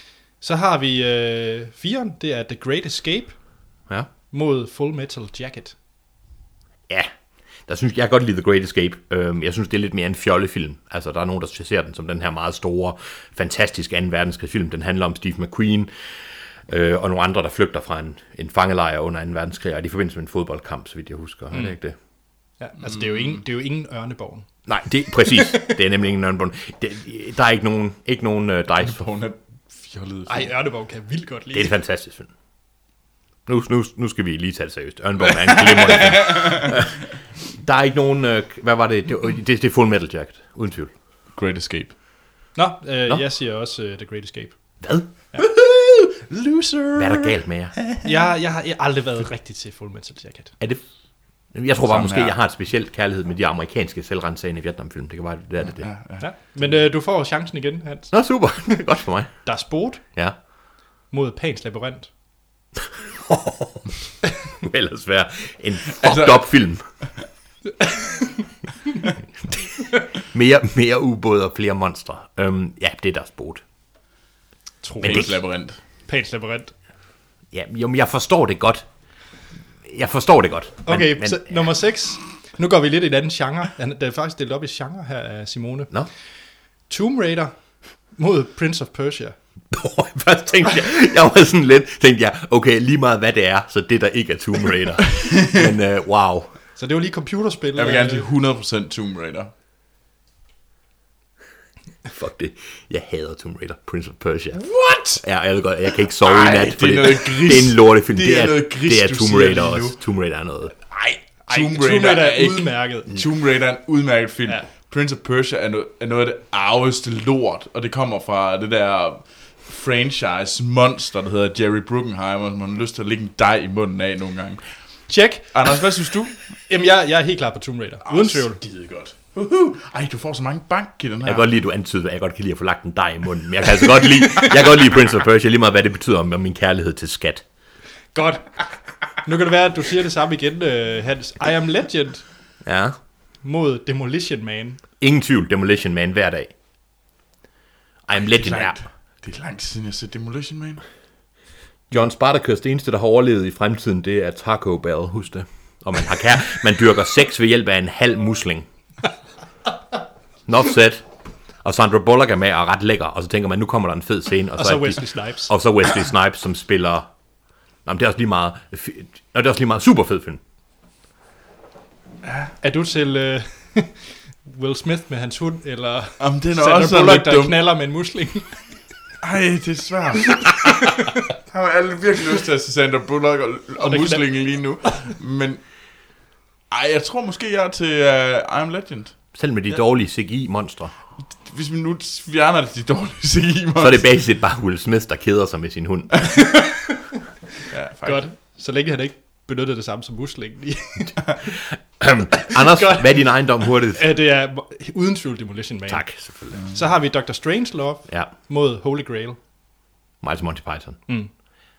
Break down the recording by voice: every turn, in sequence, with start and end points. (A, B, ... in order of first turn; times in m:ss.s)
0:00.4-0:03.4 A
0:04.3-0:05.8 A
0:07.7-0:15.9 B
0:16.7-0:22.0 B
0:22.6-0:24.5 A
0:24.7-0:29.0 B
0:25.1-0:25.8 A
0:28.8-0:30.5 C
0:30.3-0:31.7 A
0:31.5-0:32.3 B
0:33.5-0:40.9 B
0:35.6-0:36.8 C
0:41.4-0:41.9 C
0:42.6-0:44.6 A
0:44.8-0:45.1 B
0:45.4-0:47.3 C
0:47.0-0:47.8 B
0:48.0-0:50.5 A
0:51.5-0:55.9 B
0:51.9-0:52.4 C
0:55.8-0:56.2 C
0:56.2-0:58.8 A
0:58.1-0:59.4 B
0:59.4-1:00.0 A
1:01.1-1:02.1 A
1:03.0-1:03.9 B
1:04.5-1:06.8 B
1:06.0-1:06.4 C
1:07.9-1:08.4 A
1:10.1-1:13.6 B
1:14.8-1:15.4 A
1:15.0-1:15.8 C
1:15.0-1:15.3 B
1:16.0-1:16.7 A
1:17.5-1:18.9 B
1:19.8-1:21.6 B
1:20.9-1:25.9 A
1:26.9-1:27.6 A
1:28.1-1:29.4 A
1:29.7-1:36.5 B
1:35.2-1:35.6 C
1:36.8-1:38.3 A
1:37.8-1:39.5 C
1:42.1-1:50.8 B
1:44.6-1:45.2 C
1:46.2-1:50.0 C
1:50.9-2:04.6 C
1:51.5-1:53.2 A
2:05.1-2:05.5 A
2:05.5-2:06.4 C
2:06.7-2:08.6 A
2:08.1-2:11.5 C
2:11.2-2:17.4 B
2:18.1-2:18.5 A
2:19.2-2:22.2 A
2:22.6-2:23.0 B
2:23.4-2:24.8 A
2:25.0-2:26.5 B
2:28.1-2:28.8 B
2:28.2-2:30.8 C
2:31.9-2:38.7 B
2:40.5-2:41.1 B
2:41.6-2:47.1 B
2:44.6-2:45.5 A
2:47.8-2:50.4 B
2:52.6-2:58.6 A
2:56.2-2:57.6 C
2:59.2-3:00.4 C
3:00.6-3:01.1 A
3:01.5-3:05.6 C
3:03.8-3:05.1 A
3:06.7-3:09.2 C
3:09.3-3:10.9 B
3:11.4-3:14.0 C
3:13.8-3:16.3 B
3:16.4-3:17.0 A
3:17.7-3:18.3 C
3:18.0-3:21.2 A
3:22.0-3:24.0 B
3:22.5-3:23.2 A
3:23.9-3:26.0 A
3:25.9-3:26.6 B
3:26.7-3:29.4 A
3:30.2-3:31.0 B